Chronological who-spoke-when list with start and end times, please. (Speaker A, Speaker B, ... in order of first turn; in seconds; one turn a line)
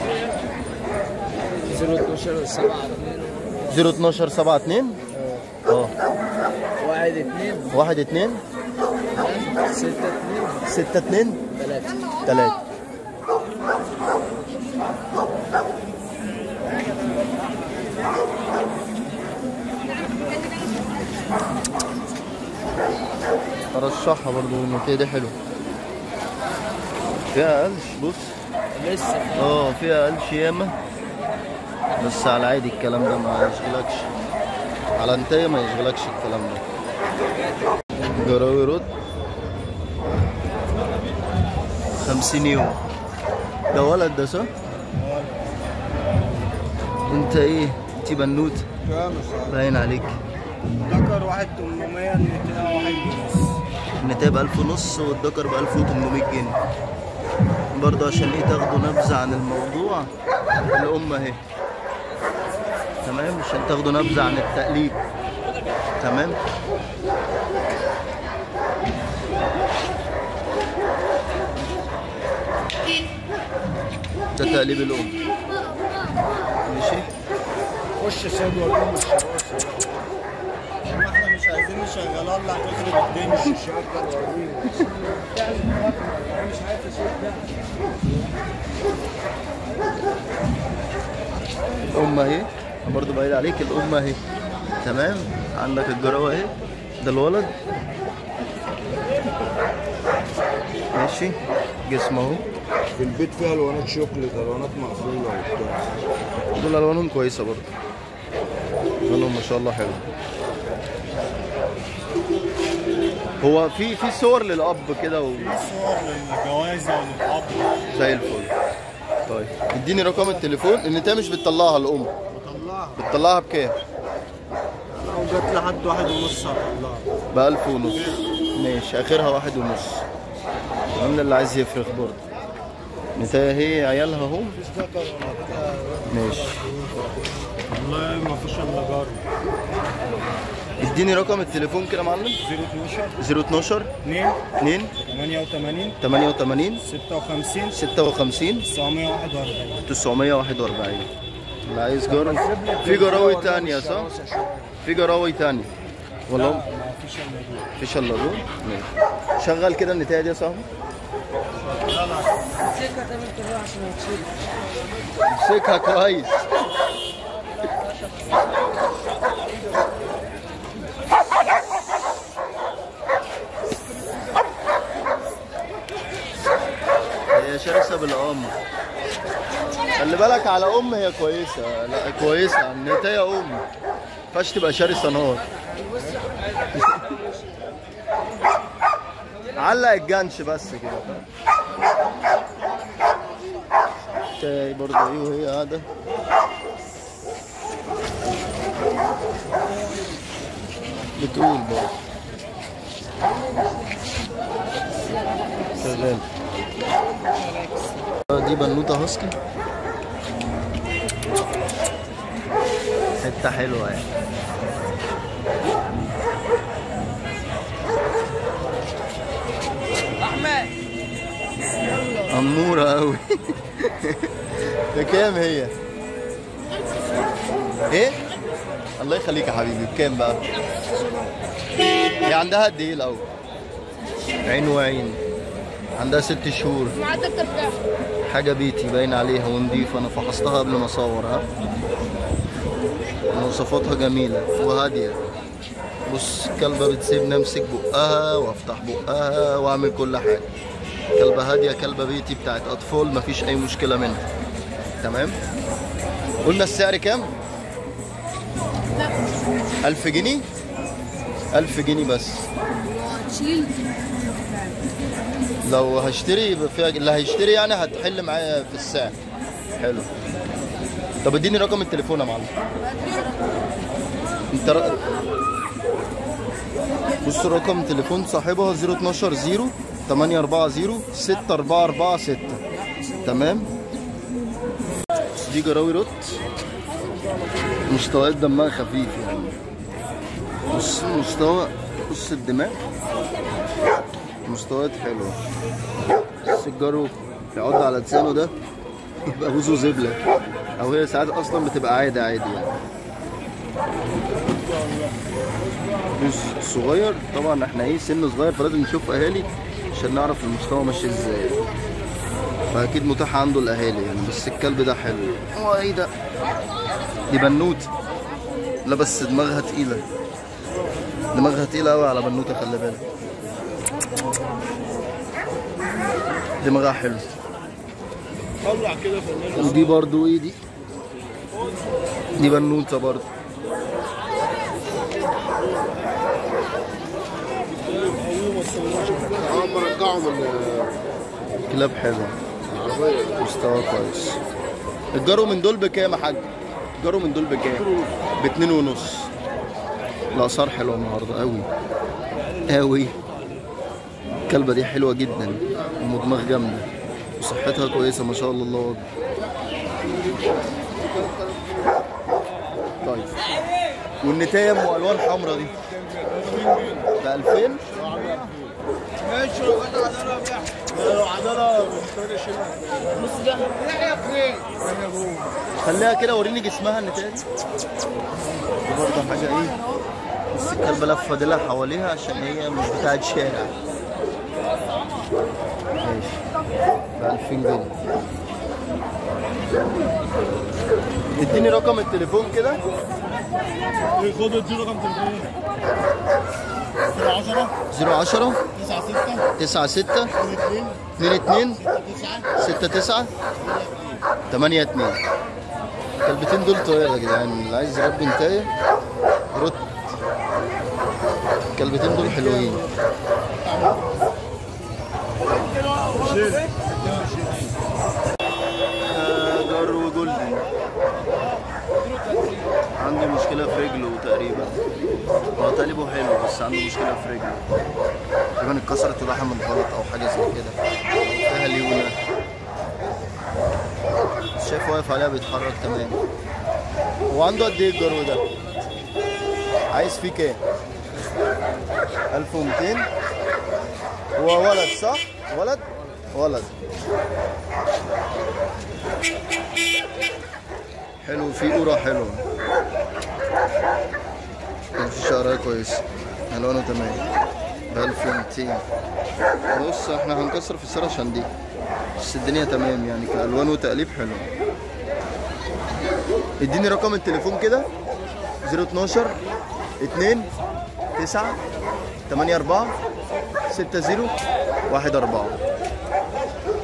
Speaker A: 1.7-2.9
Speaker B: 3.7-5.0
Speaker B: 5.6-5.9
Speaker A: 6.8-7.7
Speaker B: 7.7-8.4
Speaker A: 9.8-10.4
Speaker B: 10.7-11.4
Speaker A: 11.6-11.9
Speaker B: 12.2-12.6
Speaker B: 23.7-25.4
Speaker B: 27.3-28.4
Speaker B: 29.3-30.8
Speaker B: 32.0-34.1
Speaker B: 35.0-36.6
Speaker B: 38.1-38.9
Speaker B: 42.0-42.8
Speaker B: 43.7-44.5
Speaker C: 44.9-45.6
Speaker B: 47.1-48.6
Speaker C: 48.8-49.6
Speaker B: 49.5-50.2
Speaker C: 50.8-53.6
Speaker B: 54.0-56.6
Speaker B: 57.7-60.1
Speaker B: 60.7-61.4
Speaker B: 63.0-65.0
Speaker B: 66.0-66.4
Speaker B: 74.3-75.1
Speaker B: 76.7-77.1
Speaker C: 78.0-80.1
Speaker C: 80.8-87.5
Speaker B: 91.9-94.2
Speaker B: 94.8-97.5
Speaker B: 100.9-102.4
Speaker C: 103.0-105.9
Speaker B: 106.5-107.7
Speaker B: 109.1-110.0
Speaker B: 113.4-115.6
Speaker C: 115.4-117.8
Speaker B: 117.9-118.5
Speaker B: 119.3-122.1
Speaker C: 122.3-123.2
Speaker B: 123.0-123.8
Speaker C: 124.9-127.1
Speaker B: 127.3-130.0
Speaker B: 130.9-132.2
Speaker B: 133.2-134.6
Speaker C: 134.6-137.1
Speaker B: 136.1-136.6
Speaker C: 137.7-139.2
Speaker B: 140.8-142.4
Speaker C: 142.4-143.2
Speaker B: 143.2-143.9
Speaker C: 144.0-144.4
Speaker B: 144.6-144.9
Speaker C: 145.0-146.0
Speaker B: 146.0-146.8
Speaker C: 146.8-147.8
Speaker B: 147.7-148.7
Speaker C: 148.6-149.8
Speaker B: 149.9-151.1
Speaker B: 151.6-154.1
Speaker C: 152.1-154.7
Speaker B: 154.8-155.7
Speaker B: 156.3-156.6
Speaker C: 156.3-157.7
Speaker B: 157.8-160.7
Speaker C: 161.6-162.5
Speaker B: 165.3-166.4
Speaker B: 177.3-178.5
Speaker B: 179.9-183.6
Speaker B: 184.3-185.4
Speaker C: 185.9-186.3
Speaker B: 186.7-187.0
Speaker B: 189.6-191.2
Speaker B: 194.4-195.8
Speaker B: 201.2-201.9
Speaker B: 205.7-206.2
Speaker B: 208.3-209.3
Speaker B: 213.2-214.1
Speaker B: 222.3-224.3
Speaker B: 224.9-225.7
Speaker B: 227.9-228.2
Speaker B: 229.0-230.4
Speaker B: 232.2-233.2
Speaker B: 234.4-235.2
Speaker B: 235.9-237.1
Speaker B: 238.3-241.5
Speaker B: 243.3-245.2
Speaker B: 246.1-250.5
Speaker B: 251.2-254.2
Speaker B: 255.0-255.4
Speaker B: 256.4-257.3
Speaker B: 259.8-260.5
Speaker B: 261.5-262.5
Speaker B: 265.6-269.1
Speaker B: 269.8-270.1
Speaker B: 271.2-272.5
Speaker B: 274.5-275.0
Speaker B: 277.2-282.6
Speaker B: 283.2-283.7
Speaker B: 285.4-286.4
Speaker B: 287.9-289.6
Speaker B: 290.7-292.8
Speaker B: 294.4-295.4
Speaker B: 296.4-298.5
Speaker B: 299.3-300.2
Speaker B: 300.8-302.7
Speaker B: 306.1-311.6
Speaker B: 312.7-316.1
Speaker B: 317.3-317.9
Speaker B: 318.8-320.0
Speaker B: 321.3-323.0
Speaker B: 326.6-327.3
Speaker C: 328.6-329.9
Speaker B: 329.5-330.6
Speaker B: 332.4-333.3
Speaker C: 337.7-340.8
Speaker B: 341.7-342.4
Speaker B: 343.2-344.4
Speaker B: 345.1-346.5
Speaker B: 347.0-347.9
Speaker B: 348.4-349.3
Speaker B: 350.3-351.7
Speaker B: 352.7-353.2
Speaker B: 354.5-356.9
Speaker B: 357.4-359.0
Speaker B: 363.0-363.3
Speaker B: 364.2-365.8
Speaker C: 366.1-367.0
Speaker B: 367.2-367.9
Speaker C: 367.9-375.5
Speaker B: 375.8-377.4
Speaker B: 378.9-379.7
Speaker B: 380.5-383.7
Speaker B: 386.0-386.4
Speaker B: 387.2-388.0
Speaker B: 391.3-392.8
Speaker C: 394.1-395.5
Speaker C: 397.0-397.7
Speaker B: 397.9-398.6
Speaker C: 398.7-399.5
Speaker B: 399.6-400.3
Speaker C: 400.4-401.0
Speaker B: 401.2-401.8
Speaker C: 401.9-402.5
Speaker B: 402.5-403.3
Speaker C: 403.6-404.2
Speaker B: 404.5-405.2
Speaker B: 406.2-408.7
Speaker B: 409.5-410.0
Speaker B: 411.8-412.8
Speaker C: 416.1-417.7
Speaker B: 419.0-420.6
Speaker B: 422.9-424.8
Speaker B: 425.6-427.6
Speaker B: 428.6-432.2
Speaker B: 434.6-436.2
Speaker B: 437.3-438.4
Speaker B: 439.9-440.6
Speaker B: 442.3-443.1
Speaker B: 444.4-446.7
Speaker B: 451.2-452.4
Speaker B: 455.0-457.2
Speaker B: 457.9-458.8
Speaker B: 459.7-461.5
Speaker B: 462.2-464.5
Speaker B: 466.6-467.9
Speaker B: 468.6-469.4
Speaker B: 470.0-470.5
Speaker B: 471.2-471.6
Speaker B: 472.3-472.9
Speaker B: 473.7-474.4
Speaker B: 474.9-475.6